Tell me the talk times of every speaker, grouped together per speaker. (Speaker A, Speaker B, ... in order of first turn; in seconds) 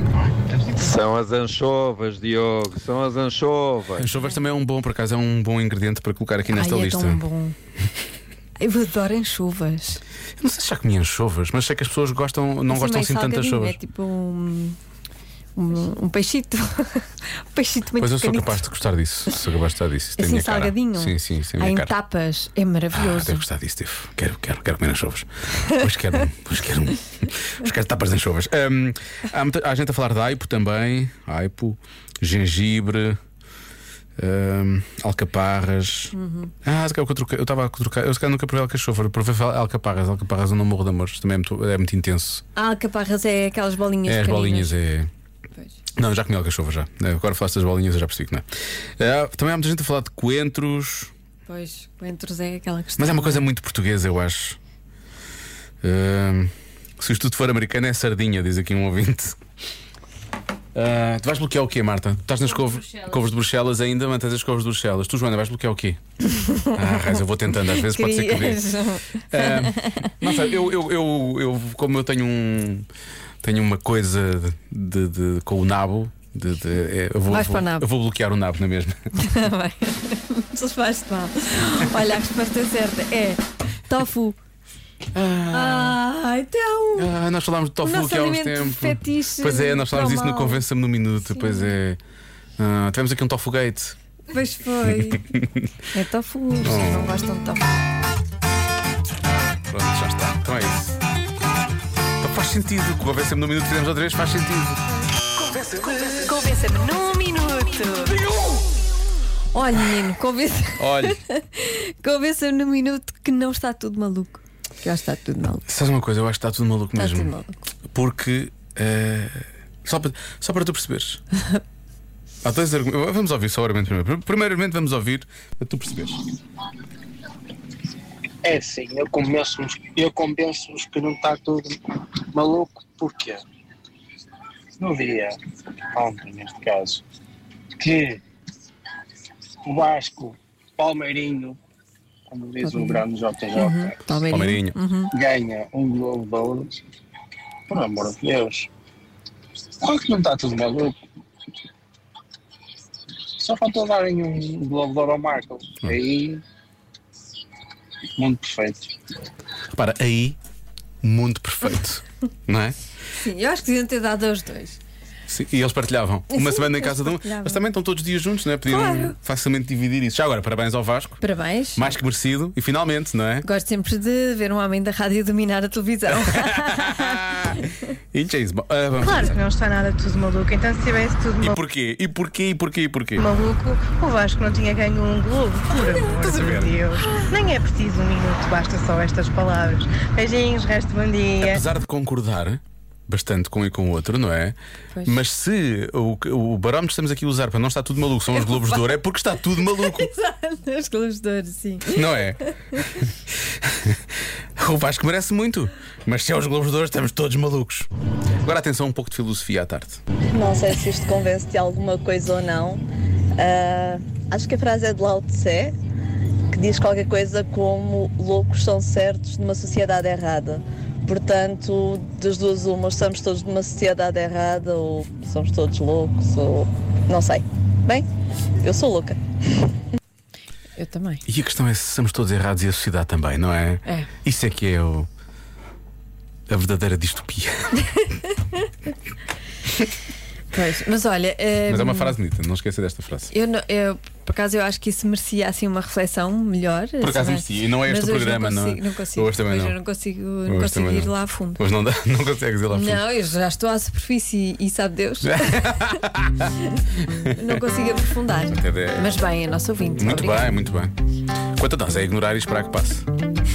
Speaker A: 0.8-4.1
Speaker B: 4.0-7.2, 10.4-13.8, 18.0-21.9, 22.9-33.2, 34.2-42.4, 44.0-45.1, 46.0-48.4, 49.0-51.1, 53.0-54.6, 55.8-59.4, 60.7-66.0, 66.6-68.6, 69.3-72.9, 73.4-79.0, 85.1-86.0, 86.9-92.0, 92.6-94.0, 94.8-95.6, 96.6-97.1, 99.7-101.0, 102.2-104.8, 110.8-111.2, 115.7-117.3, 117.9-121.2, 122.4-126.2, 144.3-144.8, 159.7-160.4, 161.0-162.8, 165.3-171.2, 171.8-173.4, 176.1-179.3, 181.4-183.3, 186.0-186.8, 191.4-200.1, 201.8-203.1, 203.6-204.0, 204.6-207.9, 208.4-210.0, 231.3-235.1, 236.5-237.8, 241.7-243.3, 247.0-249.8, 250.4-253.1, 255.2-256.5, 257.1-257.6, 258.5-259.1, 260.0-260.9, 261.6-263.1
Speaker C: 6.5-7.5, 8.6-10.0, 12.7-14.8, 15.6-18.7, 20.2-23.4, 36.1-36.5, 42.5-44.7, 51.5-53.4, 66.4-66.8, 67.6-70.1, 77.3-77.8, 79.1-84.4, 85.5-87.1, 87.8-90.6, 91.3-91.7, 94.3-95.3, 95.9-97.7, 105.9-108.2, 109.5-115.6, 116.9-117.6, 142.6-143.0, 143.5-145.1, 163.2-164.8, 166.3-167.6, 168.7-169.2, 171.2-172.0, 173.4-177.5, 185.8-186.2, 198.3-202.8, 230.8-231.2, 240.5-242.2, 243.3-251.6, 252.7-256.0, 257.2-260.5
Speaker D: 128.4-133.4, 134.8-135.4, 135.9-137.0, 137.8-138.2, 139.6-141.6, 142.3-143.9, 145.1-146.8, 147.7-148.7, 149.8-150.9, 153.4-156.4, 158.2-158.9
Speaker E: 179.0-181.6, 183.2-191.6
Speaker F: 210.3-212.8, 213.4-215.7, 216.5-228.0, 228.6-229.2